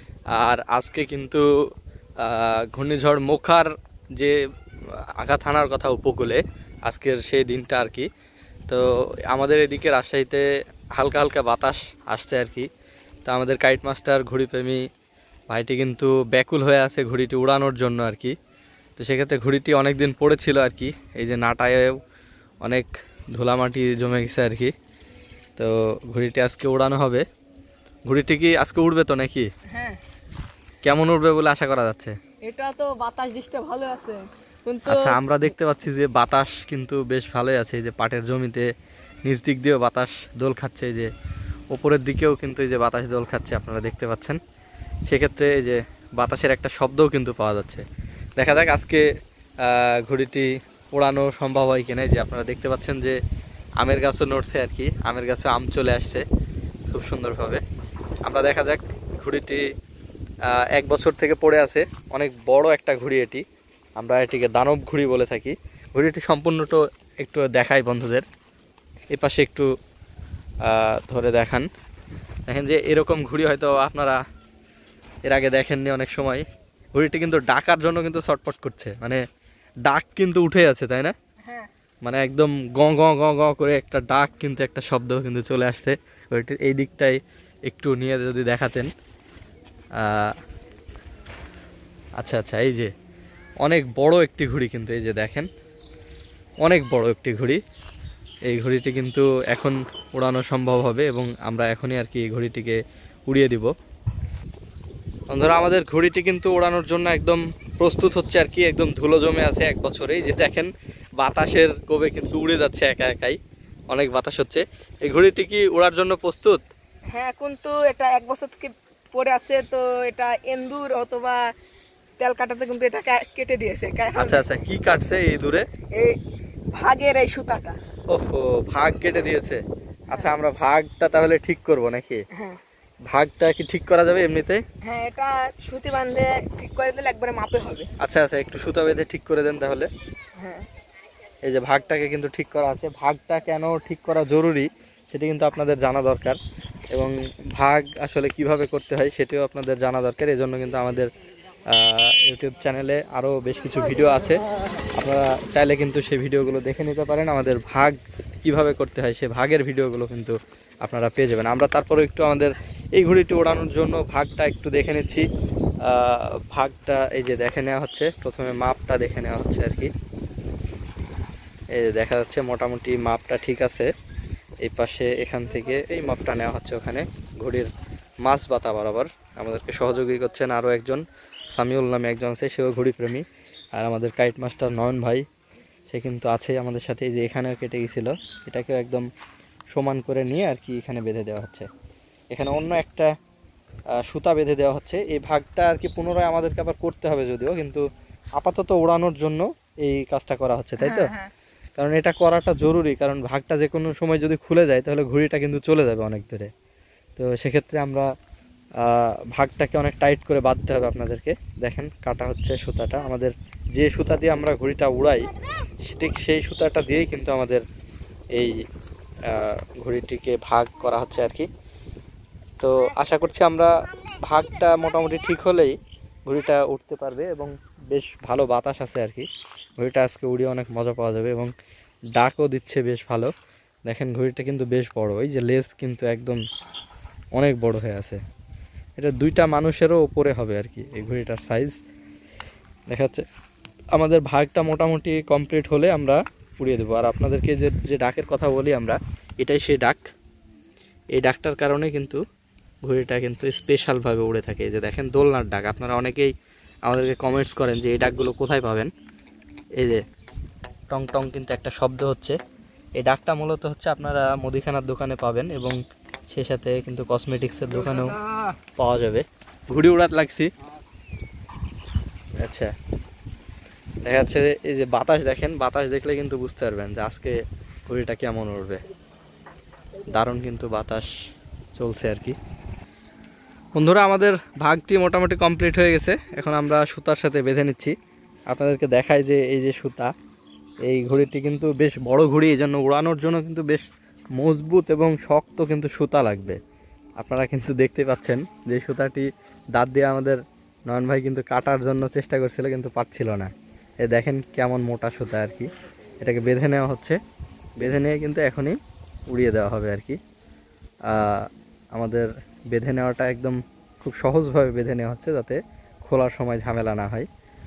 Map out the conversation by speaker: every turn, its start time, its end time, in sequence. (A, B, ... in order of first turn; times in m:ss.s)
0:00.4-0:01.4 A
0:02.2-0:04.4 A
0:05.2-0:08.1 A
0:08.7-0:10.4 A
0:11.0-0:12.7 A
0:13.3-0:14.8 A
0:15.5-0:18.3 A
0:19.0-0:21.9 A
0:22.6-0:24.7 A
0:25.6-0:27.2 A
0:28.1-0:29.5 A
0:29.7-0:30.0 B
0:30.8-0:32.1 A
0:32.5-0:35.2 B
0:34.9-0:38.7 A
0:39.3-0:41.1 A
0:41.7-0:44.4 A
0:45.1-0:47.8 A
0:48.4-0:49.0 A
0:49.6-0:53.2 A
0:53.8-0:56.2 A
0:56.9-0:57.6 A
0:58.3-0:59.6 A
1:00.5-1:03.4 A
1:04.0-1:08.2 A
1:09.1-1:09.7 A
1:10.6-1:11.7 A
1:12.5-1:14.2 A
1:15.3-1:19.2 A
1:19.9-1:21.1 A
1:22.0-1:28.9 A
1:30.0-1:30.3 A
1:32.2-1:32.9 A
1:33.6-1:35.5 A
1:36.6-1:37.6 A
1:38.5-1:43.7 A
1:45.3-1:53.4 A
1:53.9-1:56.6 A
1:57.1-2:01.4 B
2:02.2-2:04.5 B
2:04.2-2:05.6 A
2:06.7-2:07.8 B
2:08.1-2:09.6 A
2:10.1-2:10.4 B
2:10.1-2:12.2 A
2:12.3-2:12.6 B
2:13.1-2:14.6 A
2:14.8-2:17.9 B
2:18.0-2:19.9 A
2:20.4-2:20.7 B
2:21.4-2:26.4 A
2:26.9-2:31.1 A
2:31.7-2:34.4 A
2:35.0-2:45.2 A
2:45.9-2:49.9 A
2:51.8-2:53.9 A
2:54.6-2:57.7 A
2:58.3-3:01.0 A
3:01.6-3:03.2 A
3:03.8-3:05.2 A
3:05.9-3:09.1 A
3:09.7-3:11.7 A
3:12.3-3:13.1 A
3:14.0-3:17.8 A
3:18.4-3:21.1 A
3:20.8-3:21.3 B
3:21.8-3:26.5 A
3:27.2-3:28.1 A
3:28.8-3:35.2 A
3:35.9-3:37.6 A
3:39.3-3:41.5 A
3:42.6-3:43.7 A
3:44.2-3:45.8 A
3:46.3-3:49.3 A
3:49.8-3:51.5 A
3:52.2-3:53.3 A
3:53.9-3:56.4 A
3:57.4-3:58.2 A
3:59.0-4:01.7 A
4:02.9-4:03.2 A
4:04.0-4:10.0 A
4:11.2-4:12.2 A
4:12.9-4:16.3 A
4:16.9-4:18.9 A
4:20.9-4:22.4 A
4:23.0-4:25.8 A
4:26.3-4:28.2 A
4:28.8-4:30.5 A
4:32.4-4:32.7 A
4:34.0-4:37.4 A
4:37.9-4:38.8 A
4:40.1-4:41.1 A
4:41.8-4:42.4 A
4:43.8-4:47.9 A
4:48.5-4:50.1 A
4:50.9-4:53.8 A
4:54.4-4:56.6 A
4:57.2-5:03.5 A
5:04.0-5:05.7 A
5:06.2-5:07.2 A
5:07.8-5:08.8 A
5:09.3-5:10.2 A
5:11.1-5:11.4 A
5:12.0-5:17.3 A